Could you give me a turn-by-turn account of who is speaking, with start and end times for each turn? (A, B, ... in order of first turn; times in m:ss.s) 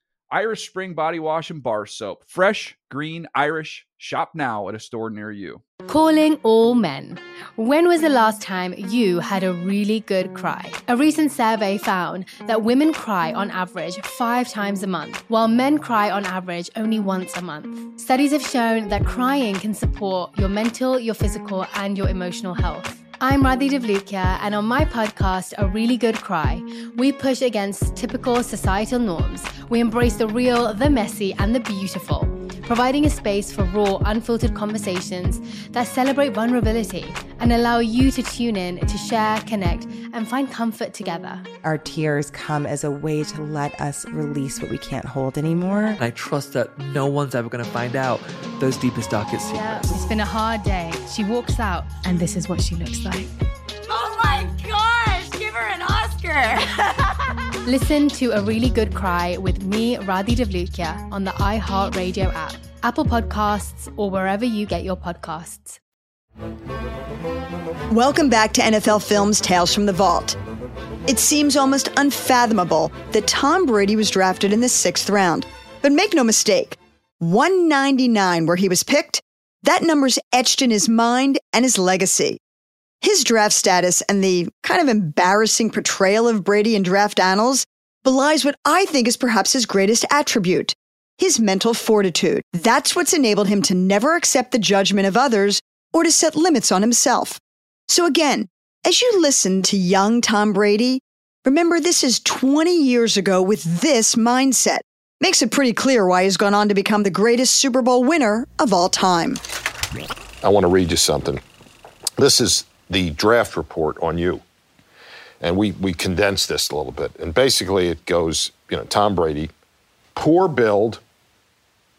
0:00.3-0:05.6 A
0:05.9-0:41.4 B
0:41.6-0:46.0 C
0:46.0-0:50.0 D
0:49.5-0:53.3 B
0:53.9-0:57.3 E
0:57.6-1:05.8 B
1:07.9-1:10.4 F
1:11.1-1:22.4 F
1:23.0-1:49.4 F
1:50.4-1:51.4 G
1:52.2-1:54.4 G
1:55.4-1:59.5 G
2:00.1-2:01.0 G